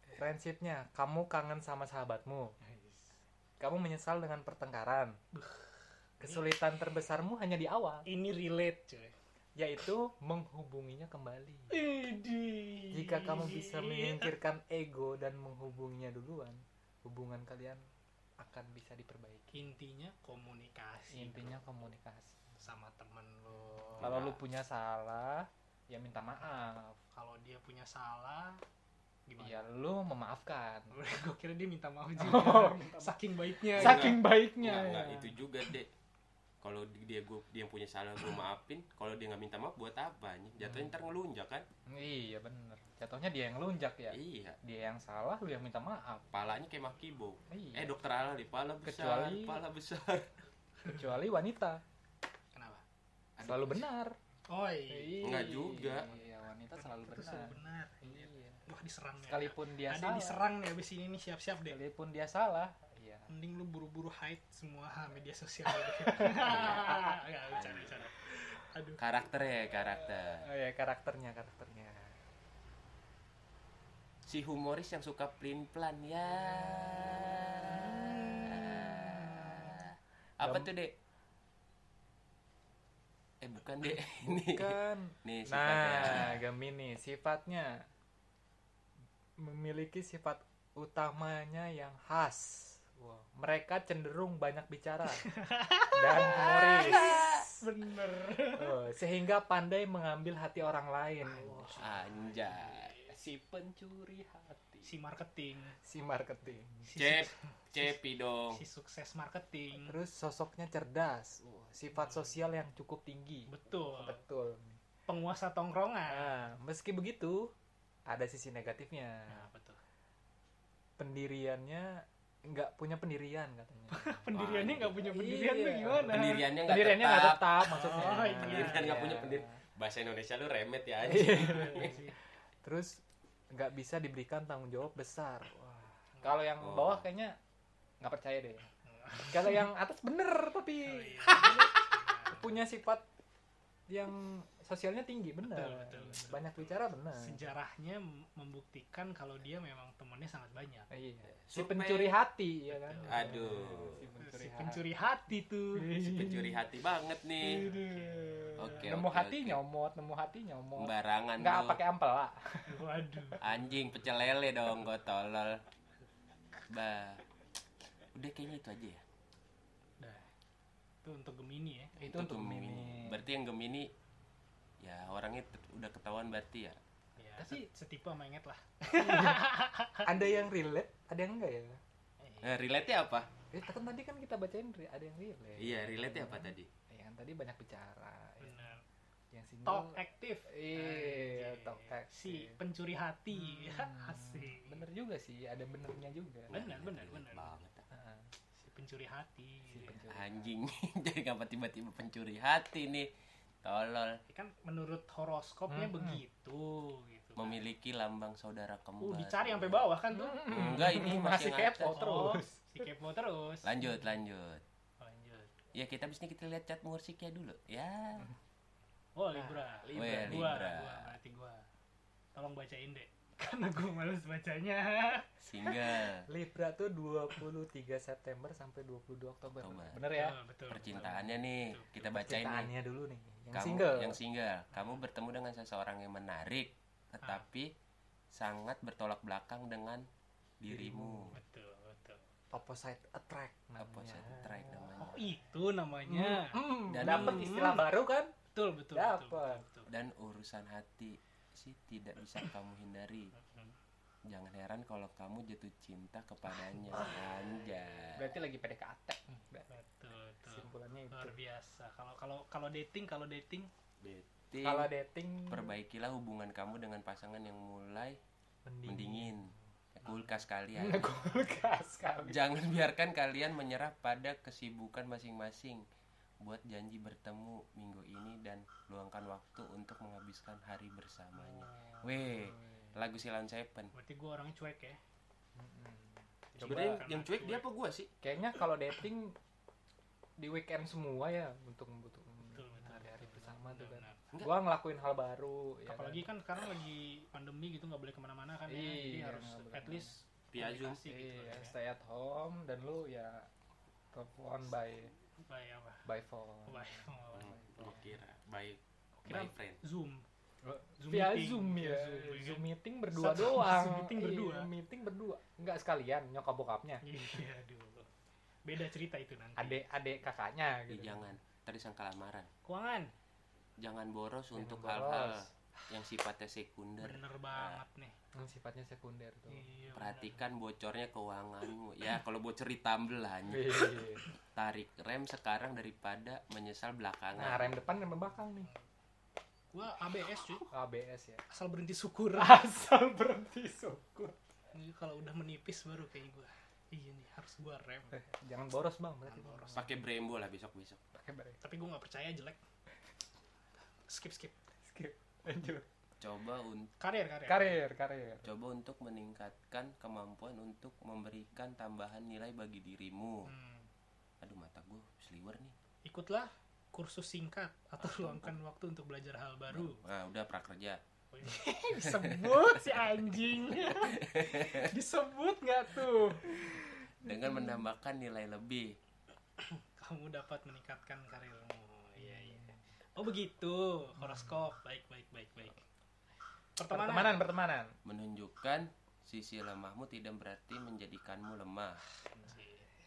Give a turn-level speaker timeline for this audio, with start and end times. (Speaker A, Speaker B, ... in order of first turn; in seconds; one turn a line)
Speaker A: 0.1-2.5
Speaker B: 2.6-3.1
Speaker A: 3.6-5.2
Speaker B: 5.3-6.5
Speaker A: 6.2-8.1
Speaker B: 8.1-9.1
Speaker A: 9.6-11.8
Speaker B: 11.7-14.3
Speaker A: 12.9-17.8
Speaker A: 18.4-19.6
Speaker B: 19.5-21.6
Speaker A: 21.1-22.5
Speaker B: 22.6-24.1
Speaker A: 24.0-27.0
Speaker C: 24.0-24.4
Speaker B: 27.1-28.6
Speaker B: 29.3-29.6
Speaker A: 29.4-30.9
Speaker B: 30.9-34.2
Speaker A: 32.2-33.1
Speaker A: 33.7-35.4
Speaker C: 33.7-35.9
Speaker C: 36.6-41.6
Speaker A: 40.6-41.0
Speaker A: 41.9-46.2
Speaker C: 44.1-44.6
Speaker C: 46.3-50.3
Speaker A: 47.5-47.9
Speaker A: 48.8-49.6
Speaker A: 50.8-51.8
Speaker B: 52.5-52.8
Speaker C: 53.4-53.8
Speaker A: 53.4-54.1
Speaker B: 54.5-55.3
Speaker A: 54.9-58.6
Speaker C: 55.2-56.1
Speaker B: 56.7-61.8
Speaker A: 59.2-60.4
Speaker A: 61.7-63.3
Speaker B: 63.3-69.0
Speaker A: 65.7-67.2
Speaker C: 66.3-66.8
Speaker C: 67.5-68.0
Speaker C: 69.0-70.4
Speaker A: 70.0-72.1
Speaker C: 74.2-80.9
Speaker B: 77.8-79.6
Speaker A: 78.1-78.7
Speaker A: 80.4-80.7
Speaker C: 83.4-86.4
Speaker A: 84.4-87.8
Speaker A: 89.4-95.3
Speaker B: 95.2-98.7
Speaker A: 95.9-97.2
Speaker C: 96.3-97.4
Speaker A: 98.5-101.8
Speaker B: 101.2-103.1
Speaker C: 101.8-102.9
Speaker A: 103.1-104.9
Speaker B: 104.8-105.8
Speaker A: 105.8-106.9
Speaker B: 106.8-108.0
Speaker C: 106.9-108.6
Speaker B: 108.5-109.9
Speaker A: 109.8-114.8
Speaker B: 112.0-112.3
Speaker B: 113.5-114.2
Speaker B: 115.1-116.3
Speaker A: 116.1-117.5
Speaker A: 118.1-119.5
Speaker B: 119.3-119.8
Speaker A: 121.0-124.2
Speaker B: 123.9-126.5
Speaker C: 124.3-125.0
Speaker A: 124.9-129.6
Speaker C: 126.0-132.0
Speaker B: 127.6-129.2
Speaker A: 131.0-132.1
Speaker B: 131.3-132.1
Speaker A: 132.6-133.0
Speaker A: 133.5-137.4
Speaker C: 136.6-137.0
Speaker A: 138.0-143.0
Speaker B: 138.8-139.6
Speaker B: 140.8-142.6
Speaker A: 143.9-147.4
Speaker B: 145.4-150.9
Speaker A: 150.9-154.8
Speaker C: 151.5-152.1
Speaker B: 152.7-153.4
Speaker C: 153.0-154.0
Speaker B: 154.2-155.8
Speaker A: 155.8-156.6
Speaker C: 156.0-157.6
Speaker A: 157.4-163.3
Speaker B: 157.6-158.9
Speaker C: 158.6-159.6
Speaker C: 160.8-161.8
Speaker B: 162.7-163.4
Speaker C: 163.4-165.6
Speaker C: 166.7-167.2
Speaker C: 168.1-169.0
Speaker B: 170.0-170.3
Speaker B: 171.0-171.9
Speaker A: 172.0-173.2
Speaker C: 172.0-173.9
Speaker C: 174.8-176.8
Speaker B: 177.2-180.1
Speaker A: 177.4-177.7
Speaker A: 178.9-179.5
Speaker A: 180.0-181.8
Speaker B: 182.2-182.6
Speaker C: 182.4-183.3
Speaker A: 183.5-188.7
Speaker C: 185.6-186.7
Speaker B: 188.4-188.8
Speaker A: 189.3-190.0
Speaker B: 189.7-194.8
Speaker A: 190.5-192.6
Speaker A: 193.3-196.5
Speaker C: 196.5-197.8
Speaker B: 196.5-197.5
Speaker A: 197.9-198.3
Speaker B: 198.6-200.0
Speaker A: 199.7-200.5
Speaker C: 200.1-203.1
Speaker C: 203.6-204.2
Speaker B: 204.3-207.6
Speaker A: 205.7-206.2
Speaker C: 207.3-209.8
Speaker B: 209.0-210.8
Speaker A: 210.1-212.6
Speaker C: 210.5-212.0
Speaker B: 211.9-213.7
Speaker C: 213.6-214.6
Speaker B: 215.0-215.6
Speaker C: 215.7-218.3
Speaker B: 219.1-221.6
Speaker A: 219.3-220.6
Speaker C: 219.9-221.1
Speaker B: 222.3-225.8
Speaker C: 225.4-226.2
Speaker A: 226.3-230.4
Speaker C: 229.6-230.0
Speaker B: 230.0-231.9
Speaker C: 230.7-232.7
Speaker A: 232.1-234.2
Speaker C: 233.5-237.7
Speaker B: 234.7-235.0
Speaker C: 238.3-240.1
Speaker C: 240.6-241.3
Speaker A: 240.7-241.3
Speaker B: 241.3-242.2
Speaker A: 242.5-245.1
Speaker C: 243.8-245.2
Speaker B: 244.9-247.9
Speaker A: 246.1-248.3
Speaker C: 246.9-247.6
Speaker B: 248.5-249.9
Speaker A: 248.9-249.6
Speaker C: 249.9-253.3
Speaker B: 253.3-253.8
Speaker C: 254.3-258.2
Speaker A: 256.9-257.2
Speaker B: 256.9-258.1
Speaker A: 258.1-259.7
Speaker B: 259.7-263.7
Speaker A: 260.4-261.4
Speaker C: 264.0-264.9
Speaker A: 264.6-265.7
Speaker C: 265.5-268.2
Speaker A: 268.6-269.5
Speaker C: 268.8-271.2
Speaker B: 270.0-270.3
Speaker A: 270.7-272.4
Speaker C: 272.2-275.8
Speaker C: 276.4-283.9
Speaker A: 282.0-282.9
Speaker B: 283.9-285.0
Speaker A: 285.6-287.0
Speaker B: 286.5-287.6
Speaker C: 286.6-288.1
Speaker A: 288.2-289.4
Speaker A: 290.4-296.2
Speaker B: 292.5-294.2
Speaker B: 295.9-301.8
Speaker A: 298.7-300.1
Speaker C: 300.5-301.0
Speaker A: 301.1-303.5
Speaker A: 304.1-305.1
Speaker B: 305.4-306.0
Speaker A: 306.0-308.0
Speaker B: 306.7-307.6
Speaker C: 307.3-309.8
Speaker B: 309.3-310.2
Speaker A: 310.6-317.0
Speaker B: 311.0-314.7
Speaker B: 317.0-318.1
Speaker B: 318.6-319.8
Speaker A: 319.6-321.2
Speaker C: 320.9-322.5
Speaker B: 322.6-323.1
Speaker C: 323.8-327.8
Speaker A: 324.6-325.5
Speaker B: 327.0-328.1
Speaker A: 328.3-329.7
Speaker B: 329.5-330.4
Speaker C: 329.9-333.9
Speaker A: 333.5-334.2
Speaker C: 334.5-337.7
Speaker A: 337.3-338.7
Speaker B: 339.7-340.7
Speaker A: 340.7-341.4
Speaker B: 341.5-342.6
Speaker A: 342.4-344.4
Speaker B: 344.7-348.1
Speaker A: 348.1-349.9
Speaker B: 349.3-349.9
Speaker C: 349.7-351.0
Speaker A: 351.1-351.6
Speaker B: 351.6-352.6
Speaker B: 354.1-354.6
Speaker A: 354.8-355.9
Speaker C: 356.2-356.9
Speaker B: 357.0-357.8
Speaker A: 357.4-358.5
Speaker C: 358.4-363.5
Speaker B: 363.4-363.9
Speaker C: 364.4-365.7
Speaker B: 366.0-370.0
Speaker C: 368.0-368.5
Speaker C: 369.7-371.0
Speaker B: 371.3-376.8
Speaker C: 372.0-372.8
Speaker C: 373.9-374.9
Speaker C: 377.2-378.9
Speaker B: 379.6-385.8
Speaker A: 382.2-382.7
Speaker A: 384.2-384.6
Speaker B: 386.8-387.4
Speaker A: 386.9-387.9
Speaker C: 388.0-392.0
Speaker B: 392.3-392.9